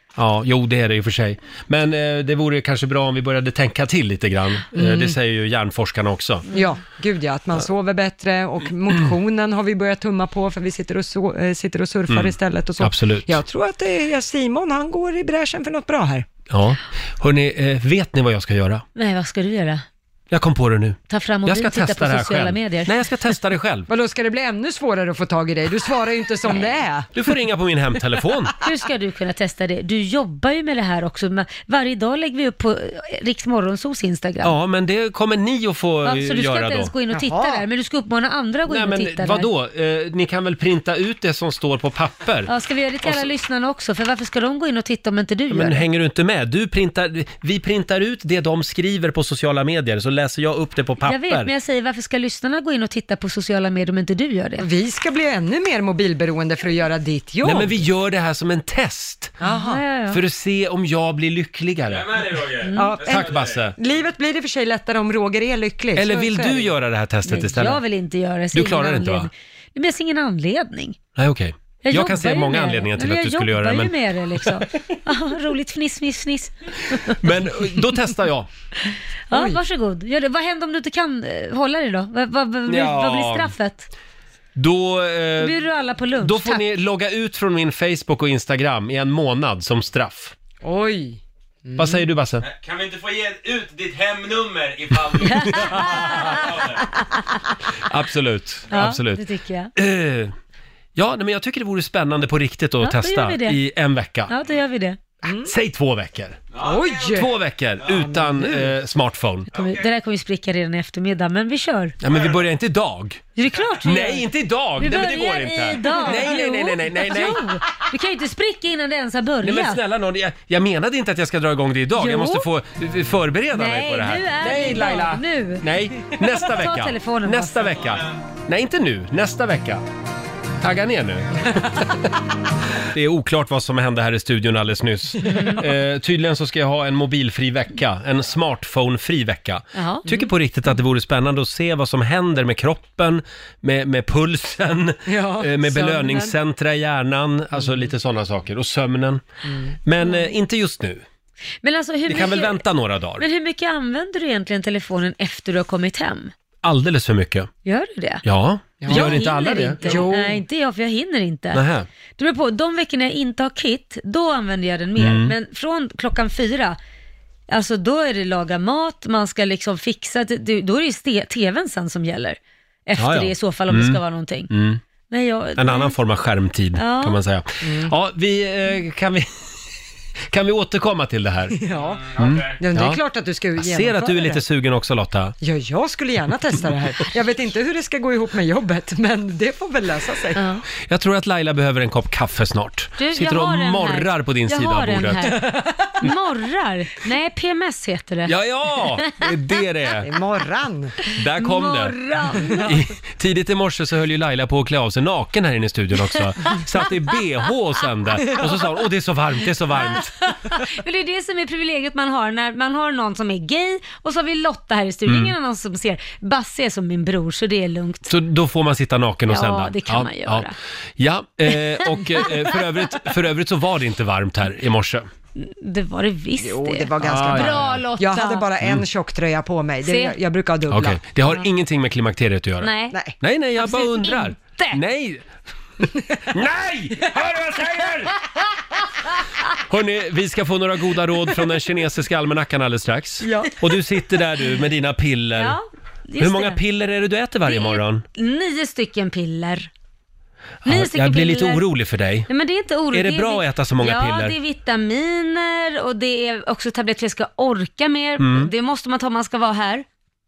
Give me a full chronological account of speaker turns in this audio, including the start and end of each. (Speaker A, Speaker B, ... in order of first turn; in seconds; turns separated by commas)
Speaker A: 0.1-6.5, Speaker B: 4.8-5.2, Speaker B: 6.5-16.2, Speaker A: 12.1-13.4, Speaker A: 16.5-18.8, Speaker C: 18.9-19.8, Speaker A: 20.3-23.9, Speaker C: 21.1-22.9, Speaker B: 23.9-27.1, Speaker A: 27.1-28.5, Speaker C: 28.6-34.5, Speaker A: 34.4-36.9, Speaker C: 36.0-39.5, Speaker B: 37.1-37.6, Speaker A: 38.7-42.5, Speaker C: 42.5-45.8, Speaker A: 45.5-51.5, Speaker C: 51.0-54.7, Speaker B: 54.6-57.8, Speaker A: 57.4-59.3, Speaker B: 59.4-59.8, Speaker C: 59.4-60.2, Speaker A: 60.1-62.3, Speaker D: 61.9-63.7, Speaker C: 62.6-63.0, Speaker B: 62.8-66.7, Speaker A: 63.0-63.8, Speaker A: 65.9-67.8, Speaker C: 67.4-71.0, Speaker A: 68.5-69.3, Speaker A: 71.2-73.9, Speaker C: 71.8-77.2, Speaker A: 76.9-78.5, Speaker C: 79.3-83.9, Speaker B: 79.3-79.6, Speaker A: 82.7-83.5, Speaker A: 84.5-85.6, Speaker C: 85.4-86.6, Speaker A: 86.2-90.3, Speaker B: 90.6-92.0, Speaker A: 91.8-92.4, Speaker D: 92.4-96.8, Speaker C: 95.2-96.5, Speaker A: 95.5-95.8, Speaker A: 97.8-99.2, Speaker C: 98.7-99.7, Speaker A: 99.8-100.3, Speaker A: 101.0-104.3, Speaker C: 102.8-103.6, Speaker C: 104.3-105.0, Speaker B: 105.2-105.5, Speaker A: 105.4-106.4, Speaker D: 106.5-106.8, Speaker B: 106.6-107.3, Speaker A: 107.1-109.5, Speaker B: 107.9-108.7, Speaker D: 109.5-109.8, Speaker C: 109.5-112.0, Speaker A: 112.0-113.2, Speaker C: 113.3-114.2, Speaker A: 113.8-117.4, Speaker C: 114.8-119.8, Speaker A: 119.4-129.8, Speaker C: 122.0-122.5, Speaker C: 123.5-127.7, Speaker A: 130.6-132.1, Speaker A: 132.9-149.2, Speaker C: 139.7-140.3, Speaker B: 145.1-146.3, Speaker B: 149.4-149.8, Speaker A: 149.8-151.0, Speaker C: 150.0-150.3, Speaker C: 151.6-152.6, Speaker A: 152.1-153.2, Speaker C: 153.2-156.3, Speaker A: 156.6-157.5, Speaker C: 157.6-158.2, Speaker A: 158.2-160.1, Speaker B: 158.8-160.4, Speaker C: 158.8-161.6, Speaker A: 161.5-161.9, Speaker C: 162.2-166.8, Speaker A: 165.0-165.3, Speaker C: 167.5-174.5, Speaker A: 173.0-174.8, Speaker C: 175.1-175.9, Speaker A: 175.6-179.3, Speaker C: 176.8-177.2, Speaker B: 177.6-177.9, Speaker A: 180.3-181.6, Speaker B: 181.6-182.0, Speaker D: 181.8-182.6, Speaker A: 182.2-183.0, Speaker B: 182.6-184.4, Speaker A: 183.6-185.3, Speaker B: 185.4-190.6, Speaker A: 190.8-196.1, Speaker C: 193.0-198.3, Speaker A: 198.2-200.1, Speaker B: 200.0-200.9, Speaker A: 201.1-201.9, Speaker C: 201.4-202.7, Speaker A: 202.6-210.3, Speaker C: 209.8-218.1, Speaker A: 215.1-215.3, Speaker A: 218.1-225.1, Speaker C: 219.3-220.5, Speaker C: 221.9-222.5, Speaker C: 225.3-228.5, Speaker B: 226.4-231.0, Speaker A: 227.0-227.8, Speaker C: 229.8-230.2, Speaker A: 230.7-235.2, Speaker C: 232.6-233.0, Speaker C: 233.6-234.8, Speaker A: 236.3-238.1, Speaker A: 239.7-245.6, Speaker B: 243.2-243.5, Speaker C: 245.3-246.6, Speaker A: 246.2-248.0, Speaker C: 247.4-249.7, Speaker A: 250.6-252.3, Speaker C: 250.7-251.6, Speaker C: 252.3-259.8, Speaker A: 252.9-254.3, Speaker A: 258.2-258.5